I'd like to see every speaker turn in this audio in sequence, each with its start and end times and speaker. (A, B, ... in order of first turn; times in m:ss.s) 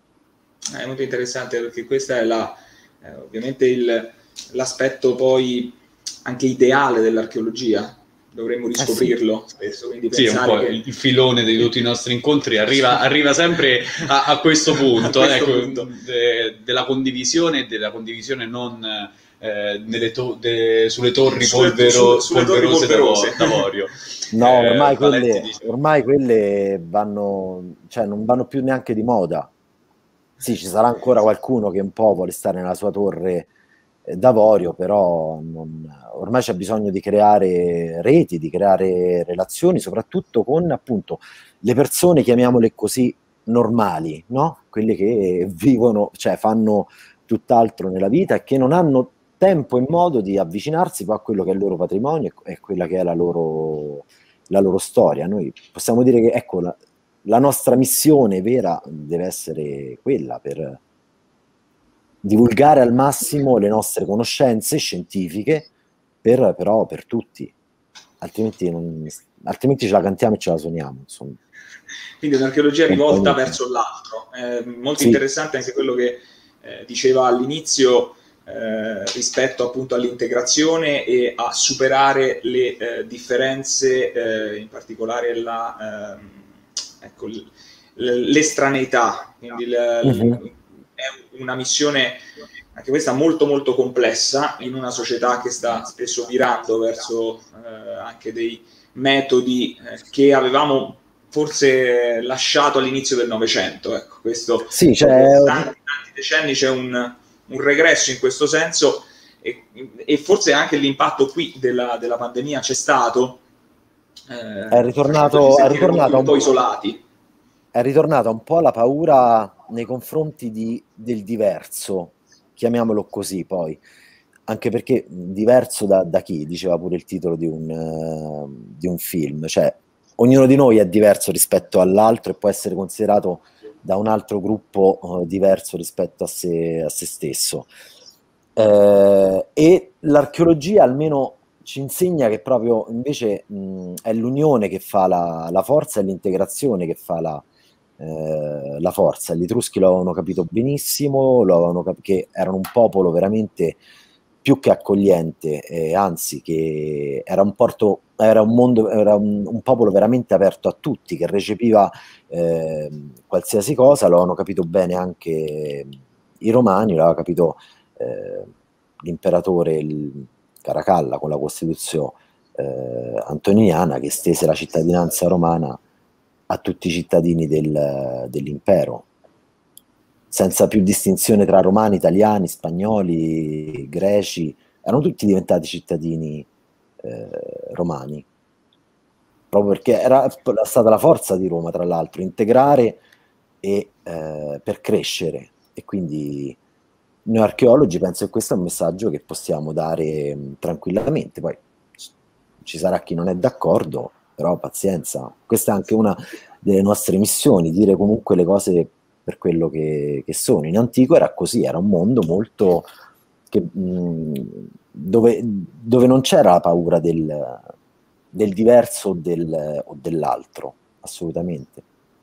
0:00.7-0:10.8 A
0:08.8-0:09.1 B
0:10.1-0:25.6 C
0:14.9-0:15.9 A
0:21.4-0:23.7 A
0:24.3-0:29.5 B
0:30.4-0:33.5 B
0:34.0-1:00.8 B
1:02.2-1:05.7 B
1:06.2-1:07.5 B
1:08.2-1:11.4 B
1:12.2-1:26.4 A
1:12.9-1:13.5 B
1:27.0-1:32.2 A
1:30.0-1:30.4 B
1:32.8-1:53.4 A
1:44.7-1:45.7 B
1:54.3-1:57.0 A
1:54.7-1:56.5 B
1:57.7-2:03.8 B
2:04.5-2:17.7 B
2:18.6-2:27.4 B
2:28.0-2:33.8 B
2:34.4-2:48.5 B
2:49.0-2:55.8 B
2:56.5-2:59.1 B
3:00.3-3:06.5 B
3:07.0-3:08.3 B
3:09.5-3:13.0 B
3:13.6-3:16.6 B
3:17.3-3:21.6 B
3:22.6-3:32.9 B
3:33.5-3:37.7 B
3:38.3-3:41.8 B